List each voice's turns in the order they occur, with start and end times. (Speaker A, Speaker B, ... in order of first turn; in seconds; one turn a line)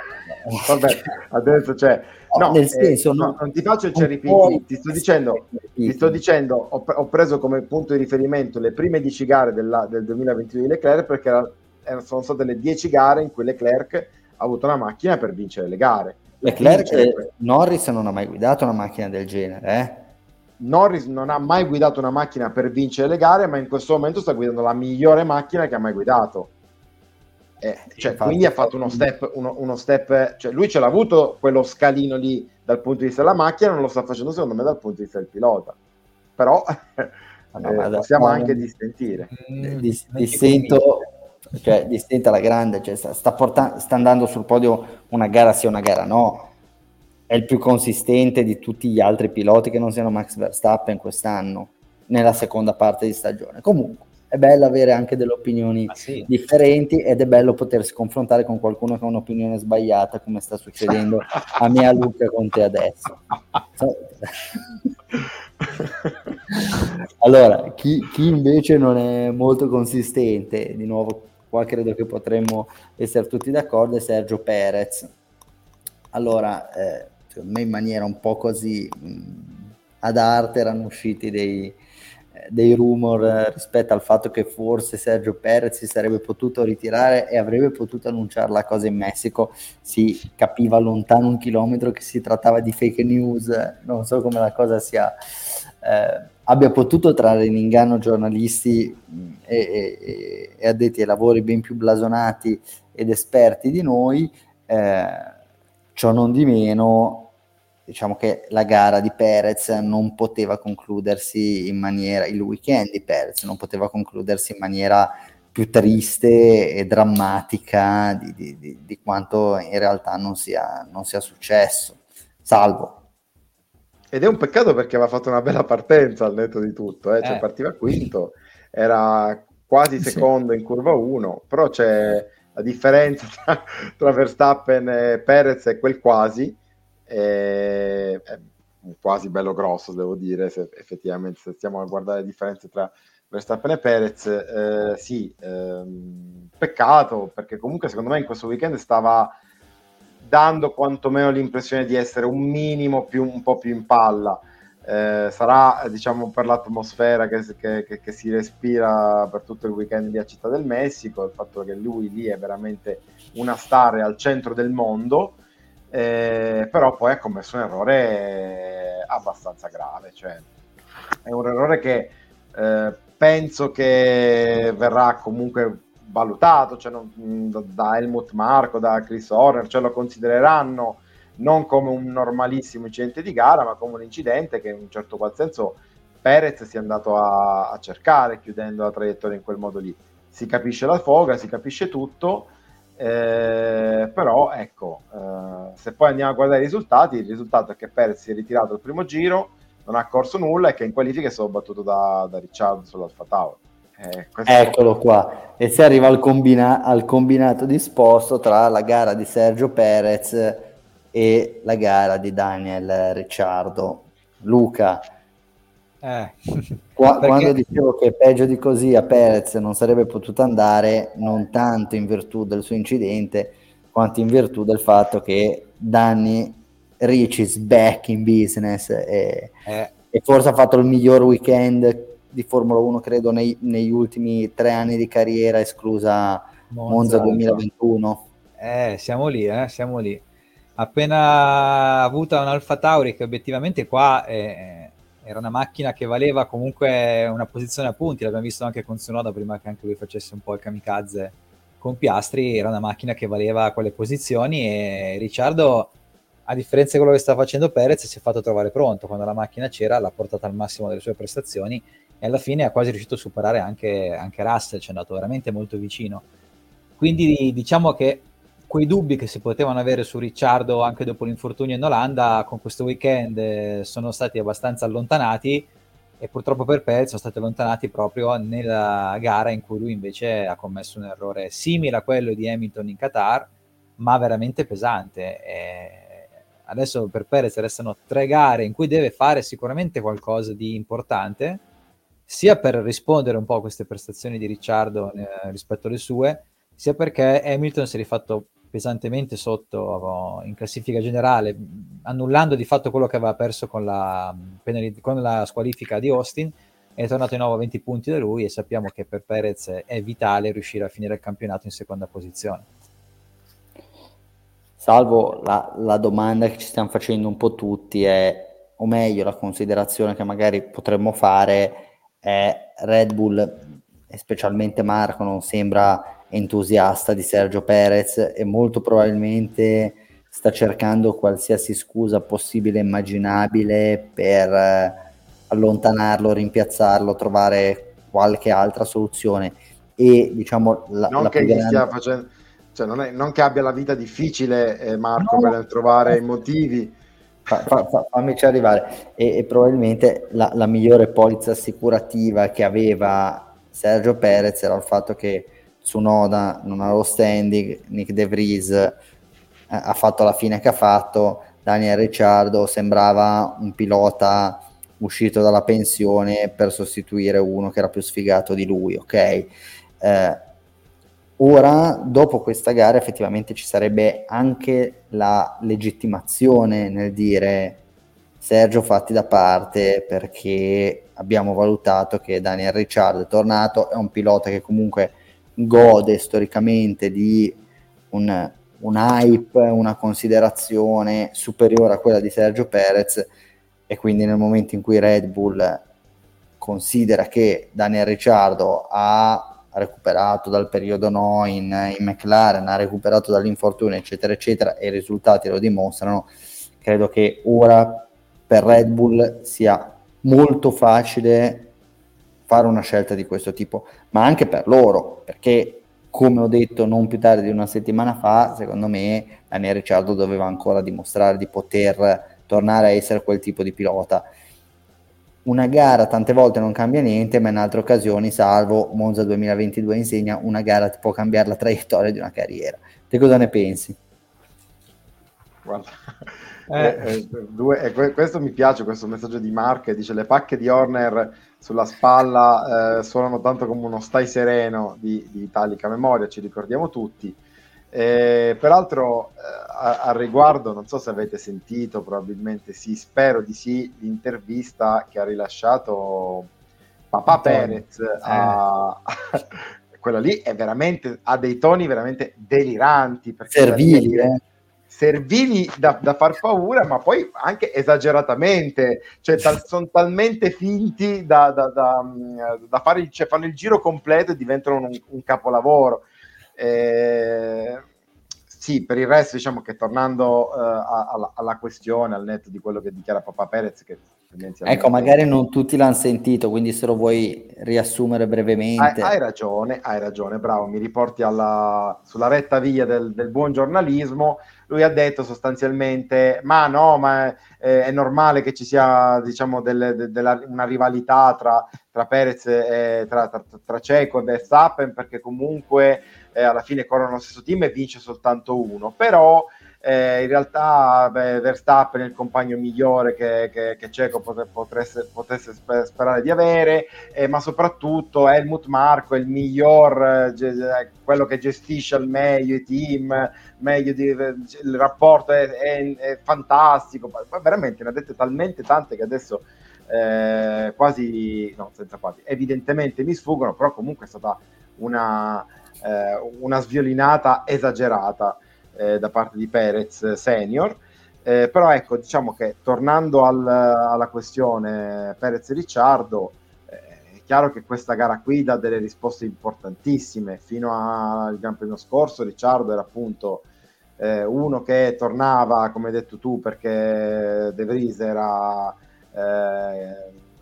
Speaker A: 0.6-17.2
Speaker B: 2.3-3.4
Speaker B: 3.9-6.2
Speaker B: 16.4-20.0
Speaker A: 20.6-26.5
Speaker A: 27.6-35.8
Speaker B: 28.0-29.1
Speaker A: 36.4-39.3
Speaker B: 37.5-38.6
Speaker C: 39.3-40.8
Speaker B: 39.6-46.5
Speaker B: 47.3-63.2
Speaker C: 55.9-56.3
Speaker B: 63.7-64.7
Speaker B: 66.5-75.1
Speaker B: 76.1-81.8
Speaker B: 82.3-105.3
Speaker B: 105.9-107.3
Speaker B: 107.9-123.0
Speaker A: 124.1-149.3
Speaker C: 127.2-127.5
Speaker A: 150.2-165.4
Speaker A: 165.9-170.4
Speaker A: 171.2-204.8
Speaker B: 204.4-215.0
Speaker C: 216.0-217.6
Speaker B: 216.9-229.5
Speaker C: 229.7-229.9
Speaker B: 230.1-238.2
Speaker C: 236.7-237.6
Speaker C: 238.6-240.2
Speaker C: 240.8-255.9
Speaker C: 256.5-266.2
Speaker C: 267.0-275.7
Speaker C: 276.2-291.6
Speaker C: 292.3-312.7
Speaker B: 314.8-341.9
Speaker A: 341.1-347.0
Speaker C: 345.2-346.2
Speaker B: 347.5-359.0
Speaker B: 359.7-370.4
Speaker B: 371.4-377.8
Speaker B: 378.4-387.6
Speaker B: 388.1-393.3
Speaker B: 393.9-395.8
Speaker B: 396.6-411.7
Speaker B: 412.5-424.3
Speaker B: 425.4-434.0
Speaker A: 435.6-447.4
Speaker C: 436.7-437.1
Speaker A: 447.9-456.5
Speaker A: 457.1-464.3
Speaker C: 457.3-457.7
Speaker C: 458.2-458.5
Speaker B: 463.5-464.4
Speaker A: 464.9-477.8
Speaker A: 478.5-485.2
Speaker B: 484.6-489.1
Speaker A: 488.8-553.4
Speaker A: 554.0-560.1